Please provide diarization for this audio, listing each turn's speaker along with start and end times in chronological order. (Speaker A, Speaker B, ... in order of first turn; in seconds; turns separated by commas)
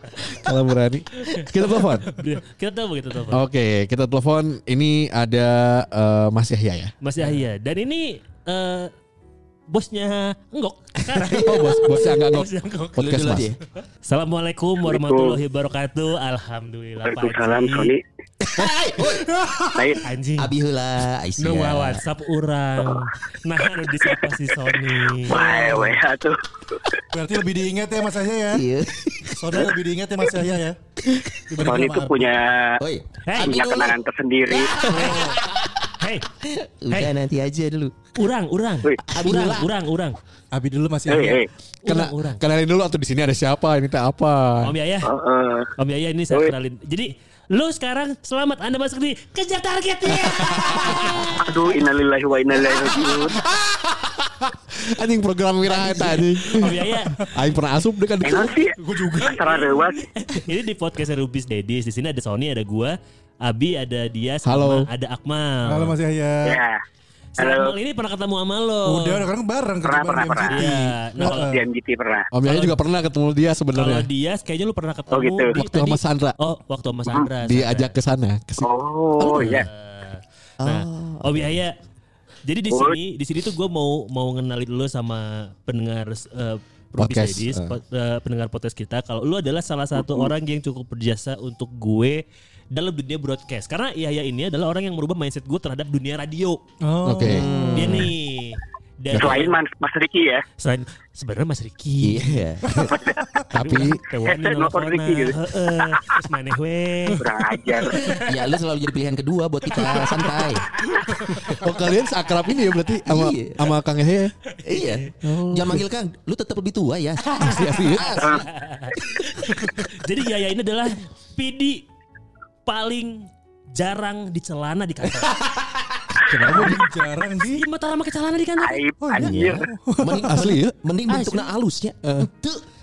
Speaker A: 0.2-2.1, Speaker B: 1.2-3.4, Speaker A: 3.3-6.9, Speaker B: 7.0-8.9, Speaker B: 9.7-13.3, Speaker C: 11.1-11.8, Speaker A: 11.2-13.5, Speaker C: 13.0-13.6, Speaker B: 14.1-17.9, Speaker D: 14.9-15.4, Speaker D: 17.0-18.0, Speaker C: 18.4-19.3, Speaker E: 19.2-19.9, Speaker D: 19.7-20.0, Speaker B: 20.0-20.5, Speaker C: 20.4-22.0, Speaker B: 21.4-25.9, Speaker D: 25.3-26.8, Speaker E: 27.1-28.6, Speaker C: 28.5-29.7, Speaker E: 29.3-30.8, Speaker C: 31.0-31.7, Speaker E: 31.5-32.3, Speaker D: 31.6-32.8, Speaker C: 32.8-34.0, Speaker B: 33.3-33.6, Speaker D: 33.4-34.8, Speaker C: 34.5-35.9, Speaker B: 34.8-35.2, Speaker E: 35.0-35.4, Speaker B: 36.0-36.3, Speaker C: 36.4-37.9, Speaker B: 38.1-40.2, Speaker C: 39.0-39.7, Speaker E: 40.5-41.4, Speaker D: 41.1-41.5, Speaker B: 41.8-42.4, Speaker A: 41.8-44.7, Speaker B: 44.6-45.1, Speaker D: 45.0-45.7, Speaker B: 45.8-51.5, Speaker A: 50.3-51.2, Speaker D: 51.4-53.4, Speaker A: 53.5-58.5, Speaker B: 55.7-57.2, Speaker D: 58.2-60.0, Speaker E: 58.8-59.8, Speaker B: 60.2-66.0, Speaker A: 64.4-64.9, Speaker E: 65.7-66.6, Speaker D: 66.4-66.8, Speaker D: 67.4-67.8, Speaker B: 67.4-69.3, Speaker E: 68.8-71.6, Speaker D: 69.8-70.6, Speaker B: 70.5-71.5, Speaker D: 71.3-72.3, Speaker A: 72.3-74.1, Speaker B: 72.4-72.8, Speaker B: 73.7-77.9, Speaker D: 75.1-75.5, Speaker A: 75.5-76.4, Speaker A: 77.4-78.7, Speaker D: 78.6-79.7, Speaker C: 79.2-79.7, Speaker B: 79.4-81.7, Speaker C: 80.6-81.6, Speaker B: 82.5-96.6, Speaker D: 82.7-83.0, Speaker A: 87.0-87.7, Speaker E: 96.8-98.0, Speaker A: 97.0-97.5, Speaker C: 97.2-98.1, Speaker B: 97.7-99.5, Speaker A: 99.1-99.4, Speaker D: 99.1-100.4, Speaker B: 100.6-102.4, Speaker C: 102.0-103.0, Speaker E: 102.7-103.5, Speaker D: 102.9-103.2, Speaker A: 103.5-104.0, Speaker B: 103.5-107.2, Speaker D: 104.2-105.4, Speaker D: 107.2-108.1, Speaker B: 107.9-108.3, Speaker C: 108.1-110.7, Speaker A: 111.6-114.3, Speaker C: 113.1-113.7, Speaker C: 114.6-118.4, Speaker A: 115.2-115.8, Speaker A: 117.4-118.3, Speaker B: 117.6-121.8, Speaker B: 122.7-125.4, Speaker E: 126.3-127.6, Speaker B: 126.4-126.9, Speaker B: 127.5-128.8, Speaker D: 128.6-129.7, Speaker E: 129.0-130.6, Speaker C: 129.2-132.6, Speaker A: 130.2-131.4, Speaker A: 132.0-132.3